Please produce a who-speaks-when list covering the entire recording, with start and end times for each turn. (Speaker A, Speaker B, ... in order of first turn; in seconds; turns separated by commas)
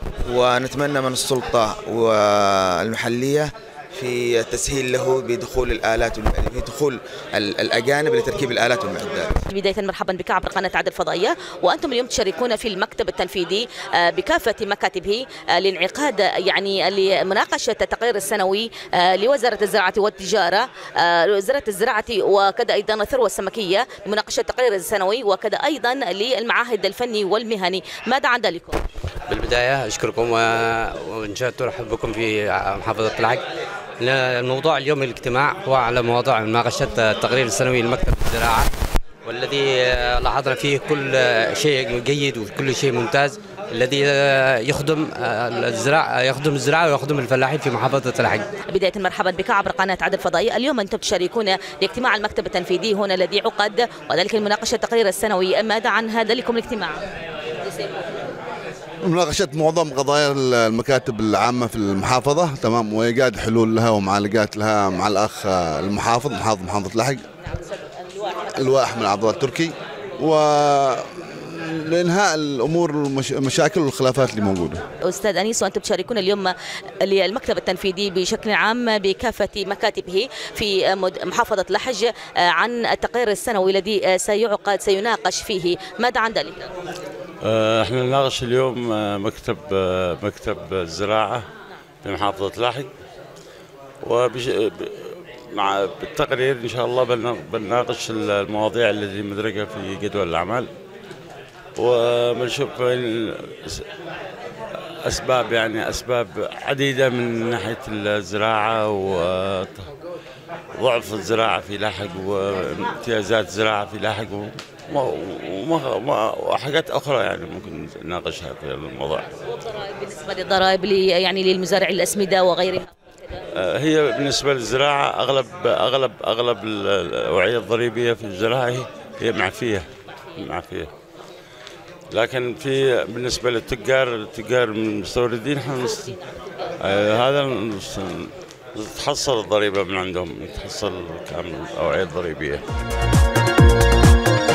Speaker A: 0.3-9.4, Speaker B: 9.5-28.8, Speaker C: 29.3-33.4, Speaker C: 34.0-38.7, Speaker C: 39.3-48.5, Speaker B: 48.7-57.1, Speaker D: 59.0-67.2, Speaker D: 68.4-74.8, Speaker B: 75.0-86.7, Speaker E: 87.4-91.5, Speaker E: 92.0-92.9, Speaker E: 94.0-100.7, Speaker E: 101.8-103.8, Speaker E: 105.1-109.9, Speaker E: 110.8-119.4, Speaker B: 119.5-123.0, Speaker E: 123.6-130.9, Speaker E: 132.1-136.2, Speaker E: 136.8-142.6